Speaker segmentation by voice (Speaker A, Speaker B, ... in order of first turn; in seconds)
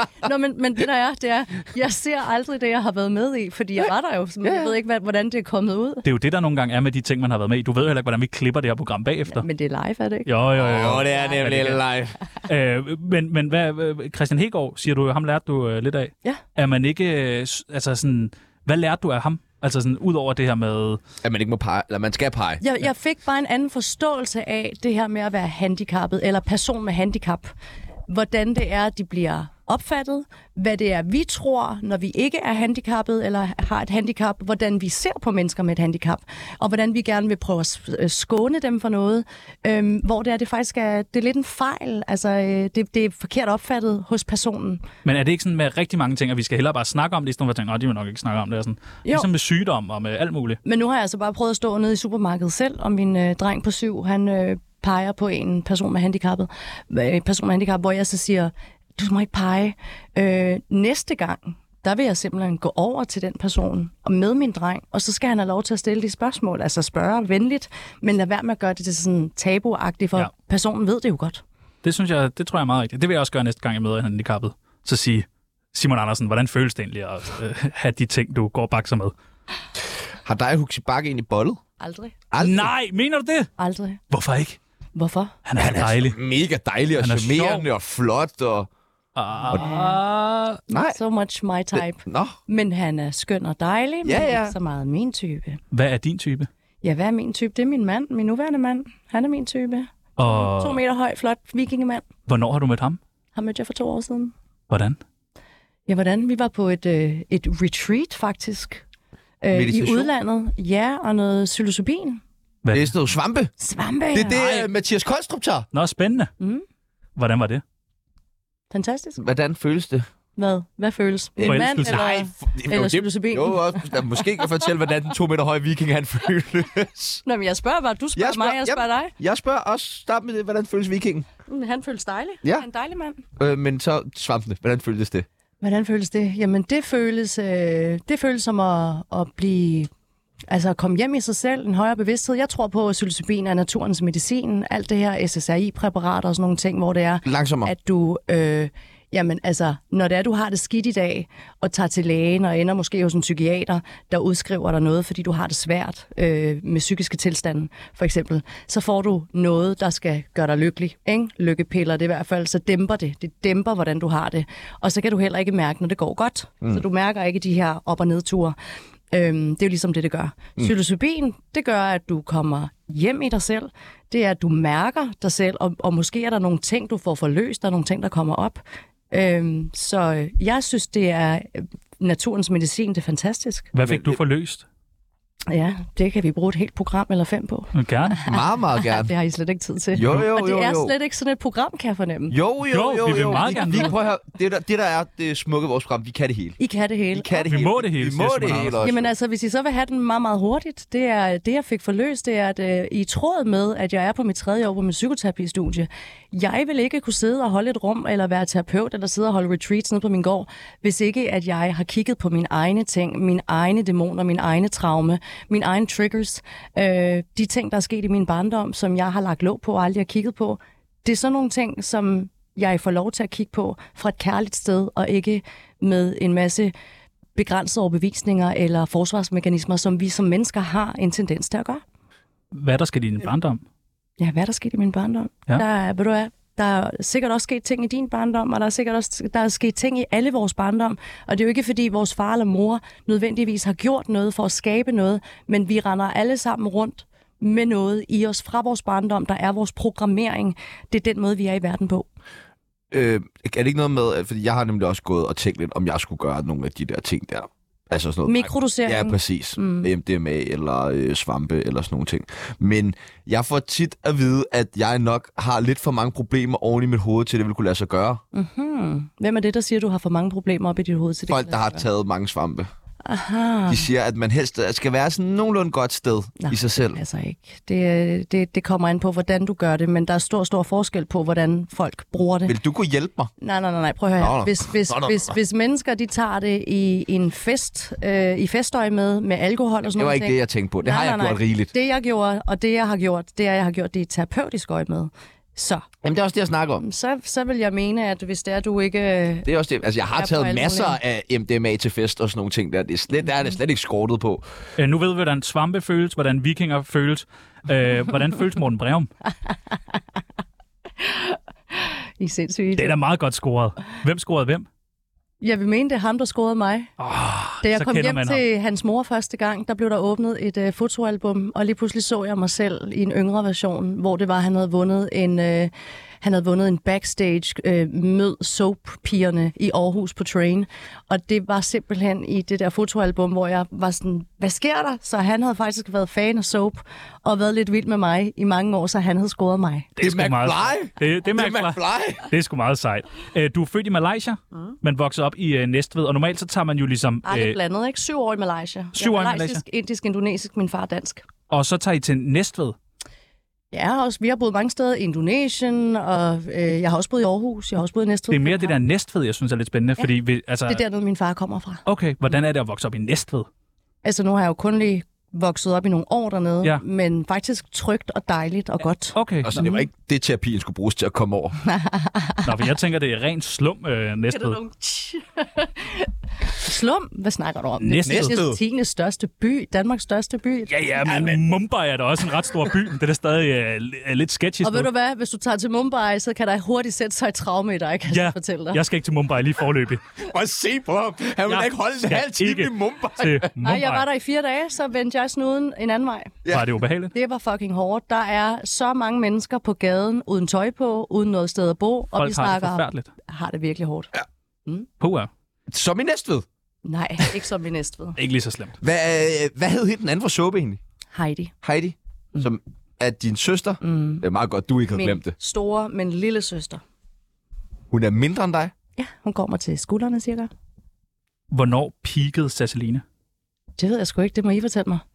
Speaker A: 0.2-6.0, 9.3-10.3, 11.1-11.4, 22.6-27.5, 28.1-44.9, 50.6-71.4, 81.8-82.1, 83.6-84.0, 84.9-85.4, 89.5-90.0, 90.7-95.6, 96.8-102.0, 103.3-104.3, 105.9-108.8, 109.4-112.2, 113.6-114.5, 116.4-116.6, 118.7-119.2, 120.3-124.4, 127.2-129.1, 131.5-133.2, 135.6-139.9, 140.5-168.6, 169.1-183.7, 185.5-192.3, 193.4-193.9, 196.6-197.4, 198.8-226.7, 227.3-231.8, 234.2-252.1, 258.2-259.9, 268.3-271.9, 273.0-273.9, 276.4-282.5, 283.4-295.9, 296.8-299.5, 300.1-301.0, 309.5-310.0, 311.0-313.0, 315.4-316.9, 317.6-339.9, 347.2-351.2, 353.7-358.7, 360.7-361.8, 364.0-369.8, 371.6-372.5, 374.3-380.7, 384.6-388.8, 393.6-396.4, 397.1-404.1, 406.8-408.2, 411.1-411.5, 413.8-414.2, 414.9-416.8, 419.0-420.5, 423.8-425.0
Speaker B: 4.4-4.7, 10.5-12.2, 21.2-22.6, 80.2-81.6, 82.3-82.7, 85.6-88.7, 90.7-91.0, 91.7-92.3, 94.0-94.5, 109.5-110.1, 112.7-113.5, 114.1-115.7, 119.2-120.0, 121.4-127.2, 128.2-131.3, 133.4-135.2, 147.2-147.7, 183.8-184.2, 188.2-189.1, 189.9-190.9, 192.3-196.6, 197.1-199.1, 252.9-268.2, 271.3-272.7, 273.7-277.0, 282.4-283.3, 284.2-285.3, 289.9-291.7, 296.0-296.8, 299.4-304.4, 340.0-342.3, 369.4-371.6, 378.0-378.6, 390.2-393.5, 396.4-396.7, 405.7-406.4, 408.8-410.8, 411.6-415.3, 417.9-418.7
Speaker C: 6.0-9.4, 10.2-11.8, 12.4-21.0, 45.0-50.6, 71.8-79.1, 82.4-83.5, 84.1-84.6, 85.5-86.2, 87.0-87.6, 89.2-90.6, 95.7-96.5, 100.2-100.8, 102.3-103.0, 104.7-105.0, 112.6-112.9, 115.7-116.3, 117.2-117.6, 121.4-122.1, 183.7-184.6, 187.7-188.2, 192.7-193.9, 197.5-198.9, 232.5-233.6, 304.8-309.1, 312.8-314.7, 317.0-318.4, 339.9-347.6, 348.9-349.6, 351.5-352.8, 358.3-360.8, 361.9-363.5, 369.1-369.6, 372.4-374.6, 377.8-378.4, 380.7-384.9, 388.1-390.0, 391.5-394.1, 396.5-397.1, 402.1-403.1, 405.0-405.3, 408.2-408.8, 421.5-423.0